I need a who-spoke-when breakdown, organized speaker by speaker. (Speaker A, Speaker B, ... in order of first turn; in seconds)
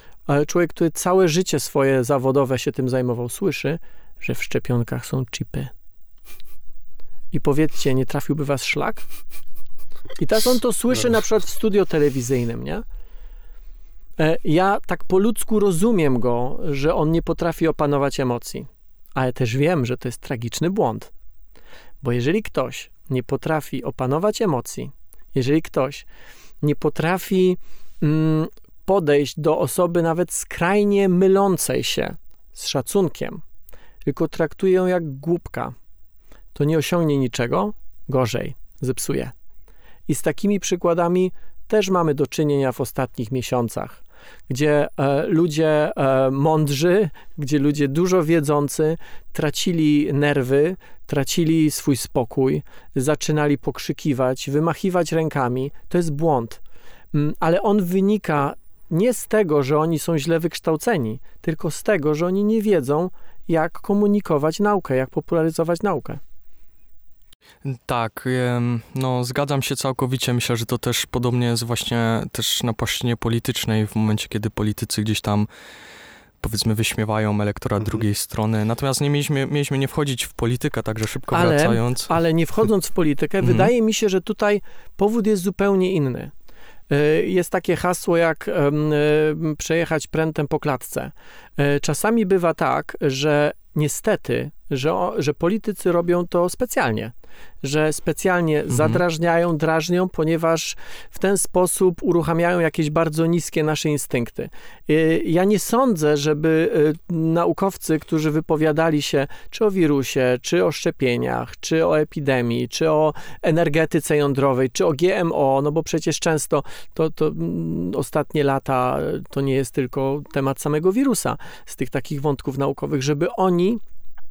Speaker A: 0.3-5.7, 7.3-9.0, 10.2-12.8, 14.2-21.1, 22.0-26.1, 26.6-33.4, 34.0-35.7, 36.5-39.3, 40.1-56.6, 57.1-66.2, 81.3-86.3, 86.9-123.8
Speaker B: 67.6-75.5, 76.4-82.1, 83.4-83.7, 98.7-99.0